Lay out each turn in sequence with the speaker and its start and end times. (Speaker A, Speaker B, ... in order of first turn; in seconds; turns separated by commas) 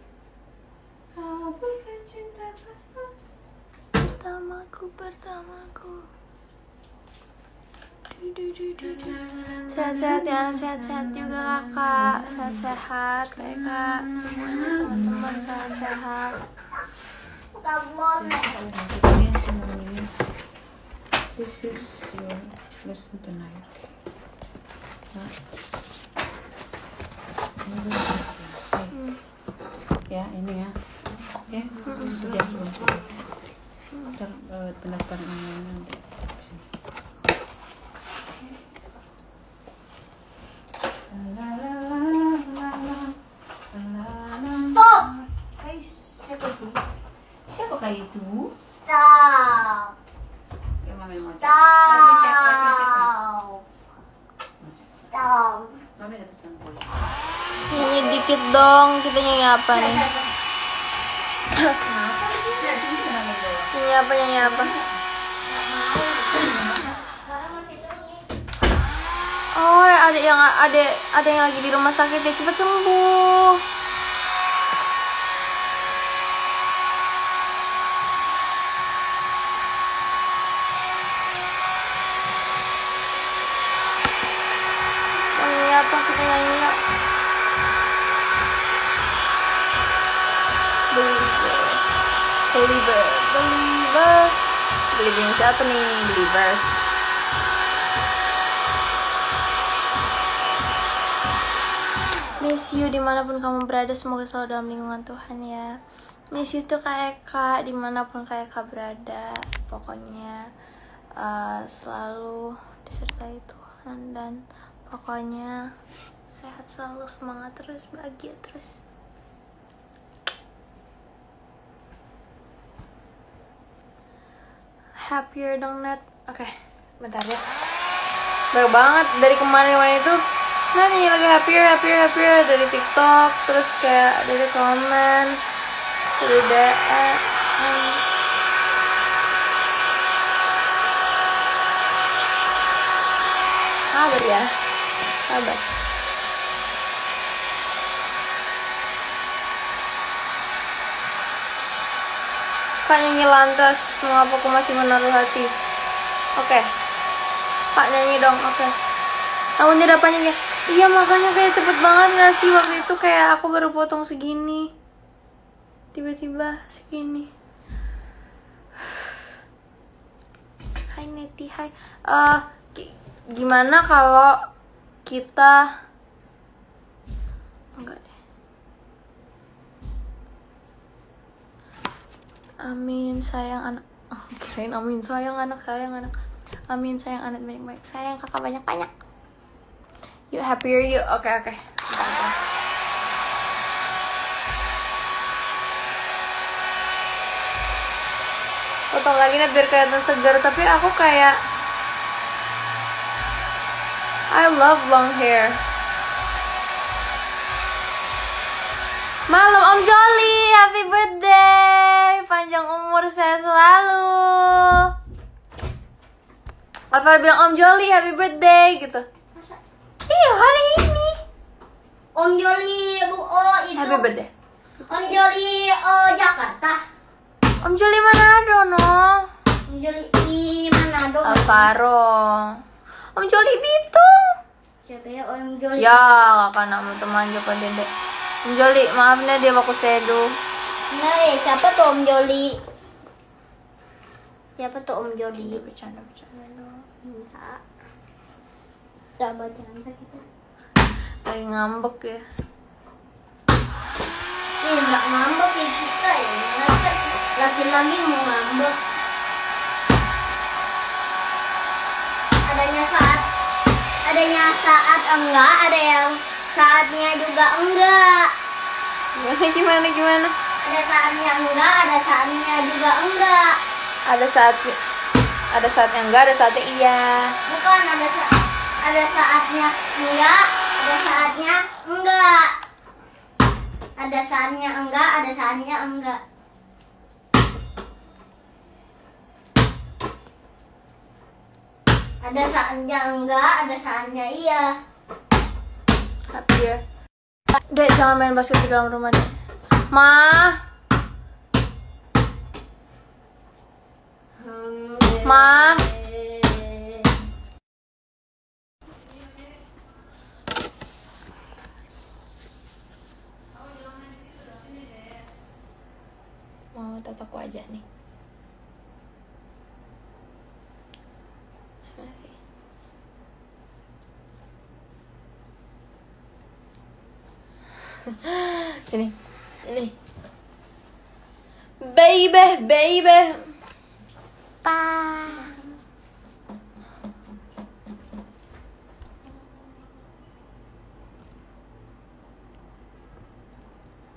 Speaker A: 1.1-3.1, Speaker B: 3.9-6.0, Speaker B: 8.1-16.4, Speaker A: 9.0-12.7, Speaker A: 13.4-15.8, Speaker C: 17.5-18.5, Speaker A: 18.2-20.1, Speaker A: 21.3-23.8, Speaker A: 27.6-29.0, Speaker B: 28.9-29.2, Speaker A: 30.1-33.1, Speaker B: 31.8-32.4, Speaker B: 33.9-34.2, Speaker A: 34.1-36.6, Speaker A: 41.1-43.1, Speaker A: 43.7-46.8, Speaker C: 44.7-45.1, Speaker A: 47.5-48.5, Speaker C: 48.9-49.9, Speaker A: 50.8-53.2, Speaker C: 51.4-53.5, Speaker C: 55.1-55.8, Speaker A: 56.0-56.9, Speaker B: 57.7-60.0, Speaker C: 57.7-58.1, Speaker C: 59.7-60.3, Speaker A: 61.8-63.7, Speaker B: 63.7-64.7, Speaker A: 64.4-64.9, Speaker C: 65.5-66.5, Speaker A: 66.3-66.7, Speaker C: 67.1-68.2, Speaker B: 69.5-73.6, Speaker B: 85.3-86.8, Speaker B: 90.9-91.8, Speaker B: 92.5-94.3, Speaker B: 94.9-96.9, Speaker B: 102.4-105.7, Speaker B: 106.3-110.4, Speaker B: 111.2-115.5, Speaker B: 116.3-118.8, Speaker B: 125.0-127.4, Speaker B: 128.5-130.2, Speaker B: 130.7-135.4, Speaker B: 136.2-138.0, Speaker B: 143.9-144.5, Speaker B: 145.3-145.6, Speaker B: 152.8-155.5, Speaker B: 156.4-156.6, Speaker B: 157.7-158.7, Speaker B: 159.6-164.7, Speaker B: 165.9-167.3, Speaker B: 170.9-174.4, Speaker B: 175.1-175.6, Speaker B: 177.8-178.1, Speaker B: 182.6-186.1, Speaker B: 186.7-188.9, Speaker B: 190.3-192.3, Speaker B: 198.9-201.3, Speaker B: 204.3-205.6, Speaker B: 209.3-214.9, Speaker B: 216.9-219.1, Speaker B: 220.1-221.2, Speaker C: 222.1-224.1, Speaker B: 223.8-224.3, Speaker C: 224.9-226.8, Speaker B: 227.6-229.2, Speaker C: 229.7-231.7, Speaker B: 231.2-232.5, Speaker B: 233.1-234.3, Speaker C: 234.8-236.0, Speaker B: 235.8-237.9, Speaker B: 238.4-240.3, Speaker C: 240.9-242.6, Speaker C: 244.6-245.6, Speaker B: 245.3-246.9, Speaker C: 247.0-247.6, Speaker C: 249.2-250.2, Speaker B: 251.2-252.2, Speaker C: 254.6-258.8, Speaker C: 262.4-263.2, Speaker C: 264.0-268.3, Speaker B: 269.1-270.3, Speaker C: 270.6-273.6, Speaker B: 274.1-274.8, Speaker B: 275.5-277.3, Speaker C: 277.4-282.5, Speaker C: 284.0-286.2, Speaker C: 292.2-294.8, Speaker B: 296.3-296.8, Speaker B: 297.7-299.3, Speaker B: 299.9-300.6, Speaker C: 304.4-307.0, Speaker B: 305.2-305.8, Speaker B: 316.7-317.8, Speaker B: 321.9-322.4, Speaker B: 328.1-329.9, Speaker B: 331.8-333.5, Speaker C: 334.6-335.6